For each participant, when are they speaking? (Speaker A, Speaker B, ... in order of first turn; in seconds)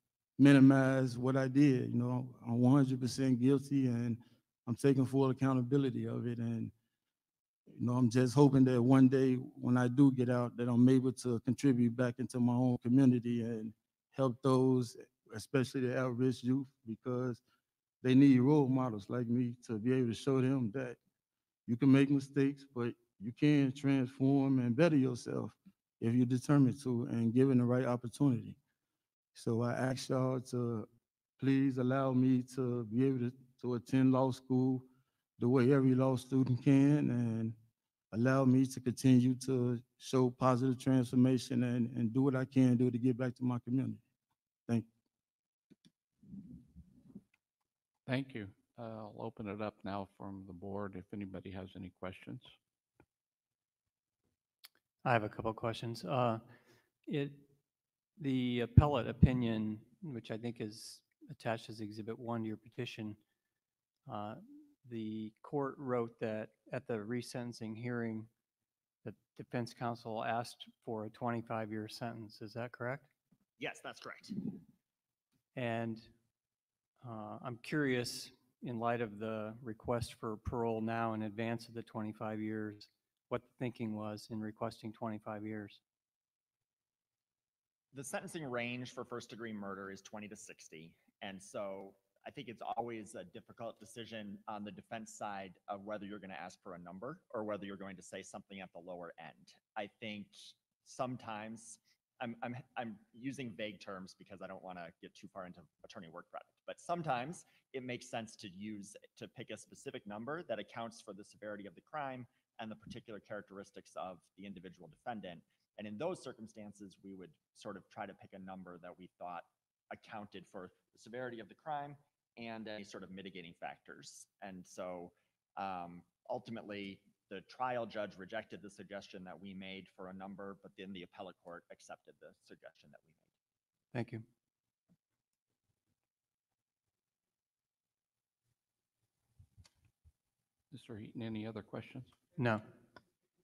Speaker A: 0.4-6.7, 7.7-17.4, 18.0-21.0, 21.7-28.6, 29.4-30.9, 31.4-34.9, 35.4-37.6, 38.1-44.0
Speaker B: 48.1-52.5, 140.7-142.2
Speaker C: 55.0-56.4, 57.1-57.4, 58.2-63.2, 64.1-68.3, 69.0-73.1, 75.6-76.1, 77.0-85.8, 133.9-134.2, 142.4-142.6
Speaker D: 73.6-74.4, 87.9-133.3